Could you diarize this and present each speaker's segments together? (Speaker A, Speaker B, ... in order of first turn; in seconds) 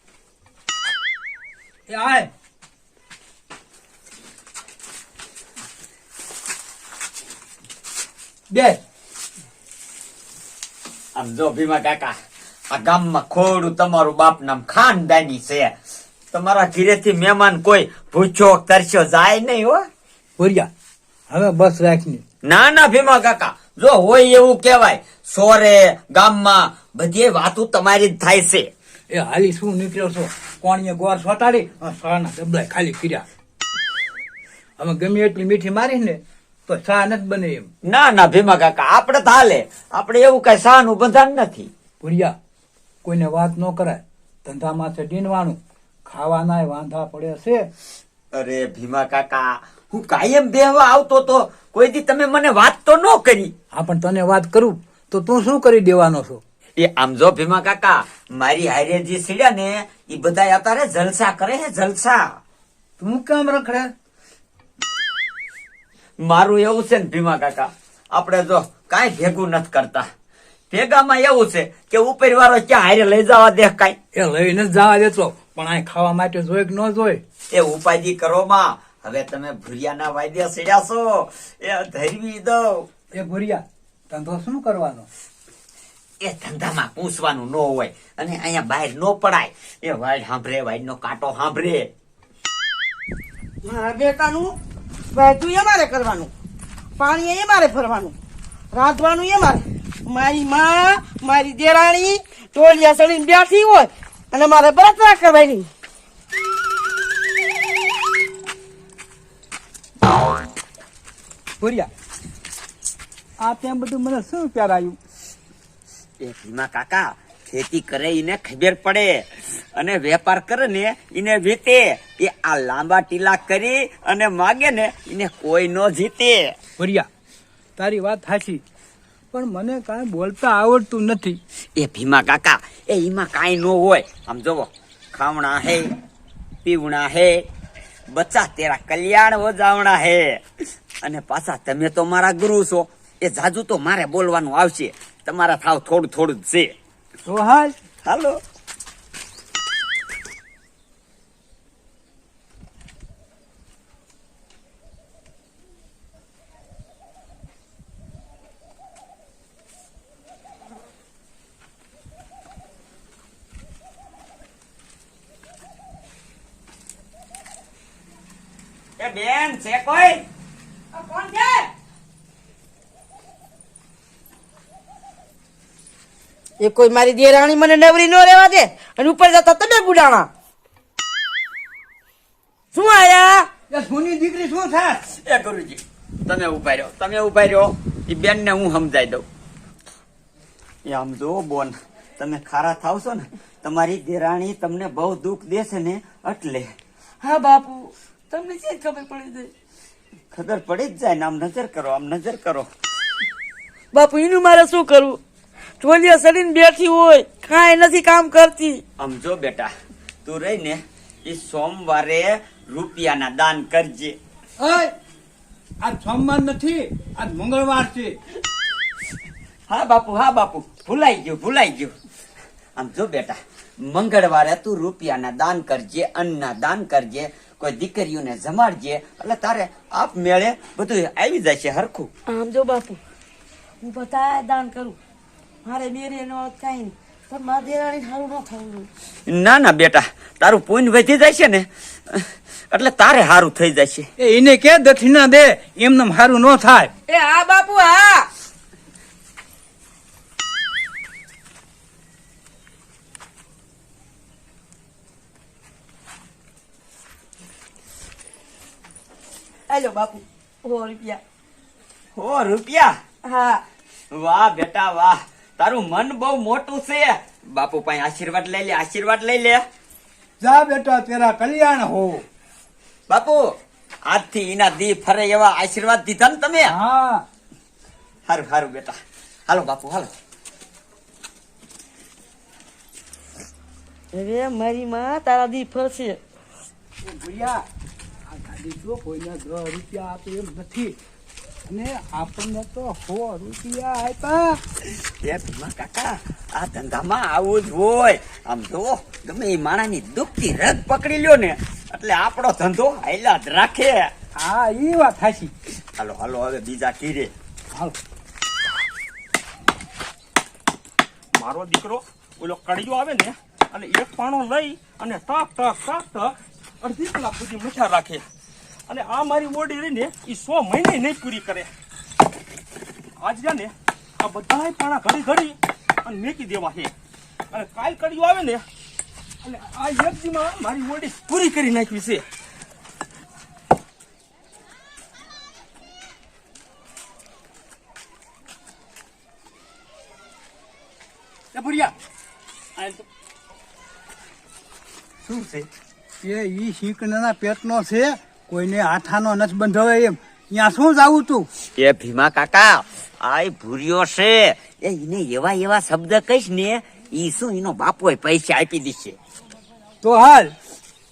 Speaker A: 1.9-2.3, 8.5-8.8, 20.4-20.7, 21.3-22.2, 29.1-33.2, 34.8-37.7, 42.0-42.3, 43.0-47.7, 53.7-56.4, 63.0-63.9, 74.1-77.2, 83.2-85.1, 111.6-111.9, 113.4-115.0, 126.8-127.1, 127.8-128.6, 129.3-131.4, 147.2-147.8, 183.7-185.0, 214.6-214.9, 215.8-218.2, 244.2-246.9, 270.4-272.2, 276.6-277.2, 287.0-287.6, 288.3-291.0, 291.7-294.6, 304.4-305.5, 346.2-351.5, 360.0-360.5
Speaker B: 11.2-12.1, 12.7-15.7, 16.3-19.9, 22.4-28.7, 37.9-41.7, 48.4-53.5, 56.8-62.4, 66.2-70.1, 70.7-74.0, 77.5-82.9, 86.2-91.9, 116.2-126.5, 131.8-135.9, 136.7-137.4, 138.1-140.4, 141.0-146.7, 148.1-148.4, 169.0-170.2, 185.1-189.3, 190.8-196.8, 200.3-202.7, 209.0-209.7, 210.2-214.2, 219.7-221.9, 222.8-232.1, 239.3-244.1, 262.1-262.9, 264.1-269.6, 273.1-273.4, 274.1-276.7, 278.3-279.0, 279.5-280.1, 294.8-304.1, 306.0-307.3, 351.8-359.2
Speaker C: 93.6-94.5, 95.1-96.3, 97.0-98.2, 98.7-105.7, 170.9-171.7, 176.6-180.3, 182.7-183.5, 197.2-199.5, 203.9-205.2, 205.8-208.8, 232.3-233.0, 233.8-235.0, 235.7-238.9, 247.1-248.3, 259.7-261.2, 263.2-263.6, 284.1-286.2
Speaker D: 311.3-318.3, 318.9-321.7, 323.2-326.9, 327.5-328.6, 329.4-332.2